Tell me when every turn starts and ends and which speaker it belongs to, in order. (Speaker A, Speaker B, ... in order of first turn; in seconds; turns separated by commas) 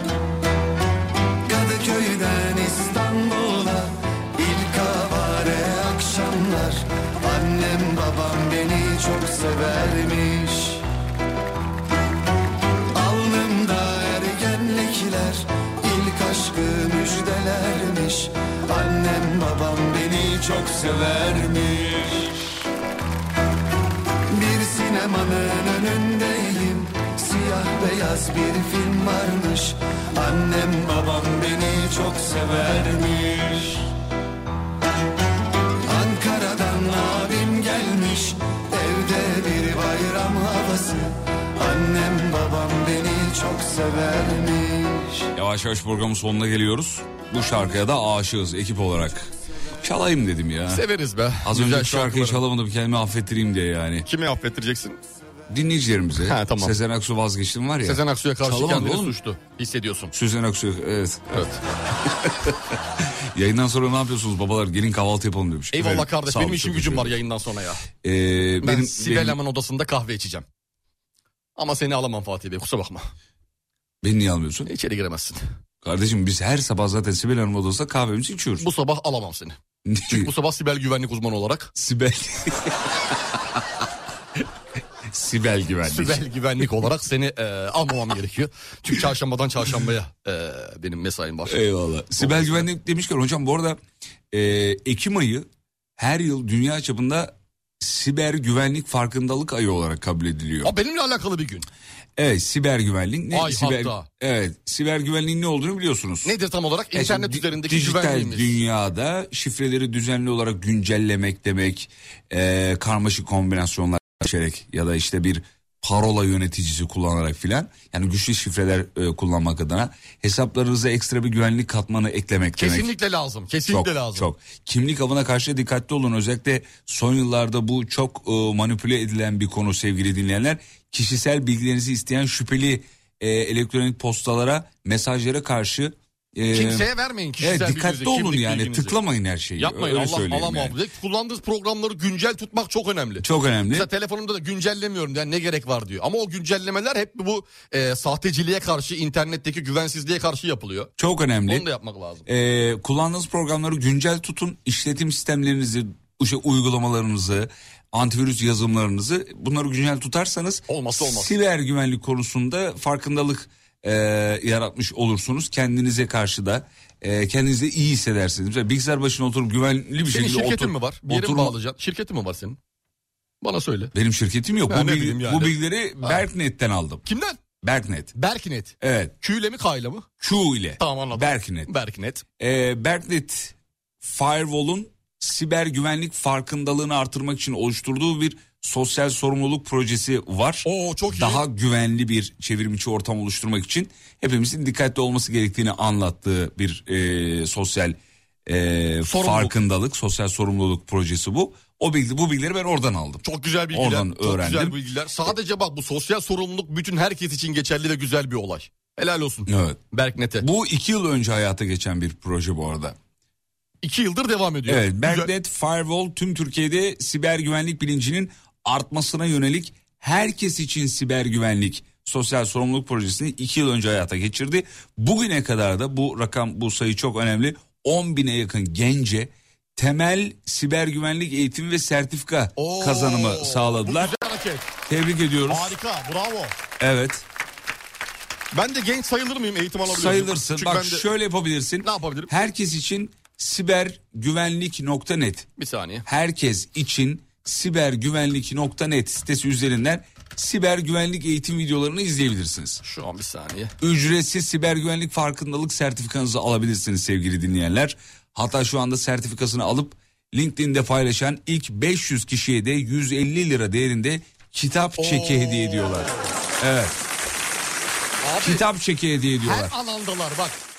Speaker A: 1.4-10.8, Speaker A: 12.9-22.3, Speaker A: 24.3-33.9, Speaker A: 35.9-45.3, Speaker B: 45.3-49.3, Speaker B: 49.8-50.8, Speaker C: 50.7-52.4, Speaker B: 51.4-54.0, Speaker C: 54.0-55.0, Speaker B: 55.5-59.1, Speaker C: 56.2-56.8, Speaker C: 57.8-60.1, Speaker B: 60.1-61.2, Speaker C: 61.3-61.6, Speaker B: 62.1-62.5, Speaker B: 63.3-67.1, Speaker C: 65.7-67.8, Speaker B: 68.0-69.4, Speaker C: 68.6-70.5, Speaker C: 71.5-73.1, Speaker B: 74.0-74.7, Speaker C: 74.7-75.4, Speaker B: 75.8-78.7, Speaker C: 78.6-81.7, Speaker B: 79.9-80.3, Speaker B: 81.8-82.8, Speaker B: 85.1-86.2, Speaker C: 85.9-91.6, Speaker B: 91.5-93.8, Speaker C: 92.2-92.7, Speaker B: 94.3-95.5, Speaker B: 96.0-100.7, Speaker C: 100.6-101.7, Speaker B: 102.2-106.3, Speaker C: 103.3-104.1, Speaker C: 106.2-108.6, Speaker B: 106.9-122.9, Speaker C: 122.6-124.3, Speaker B: 123.7-136.9, Speaker C: 136.5-139.0, Speaker B: 137.4-140.7, Speaker C: 139.6-150.9, Speaker B: 143.2-143.9, Speaker B: 151.0-151.7, Speaker C: 151.5-152.3, Speaker B: 152.3-171.5, Speaker C: 160.7-161.3, Speaker C: 170.1-172.6, Speaker C: 173.4-173.9, Speaker B: 173.9-177.0, Speaker C: 174.7-176.2, Speaker C: 177.1-177.4, Speaker B: 177.6-178.1, Speaker C: 178.2-180.1, Speaker B: 178.8-179.1, Speaker B: 180.2-181.7, Speaker C: 180.8-182.2, Speaker B: 182.4-204.8, Speaker C: 190.6-191.4, Speaker C: 199.1-199.5, Speaker C: 203.2-210.5, Speaker B: 209.5-209.8, Speaker B: 210.4-212.9, Speaker C: 213.8-215.3, Speaker B: 214.7-234.1, Speaker C: 232.6-234.8, Speaker B: 234.9-235.7, Speaker C: 235.5-236.6, Speaker B: 236.8-237.2, Speaker C: 238.5-241.1, Speaker B: 239.8-245.5, Speaker C: 241.8-242.3, Speaker C: 245.6-246.1, Speaker B: 246.1-252.8, Speaker C: 252.8-253.7, Speaker B: 253.8-266.9, Speaker C: 265.0-266.1, Speaker C: 268.2-268.6, Speaker B: 268.4-269.7, Speaker C: 269.4-270.6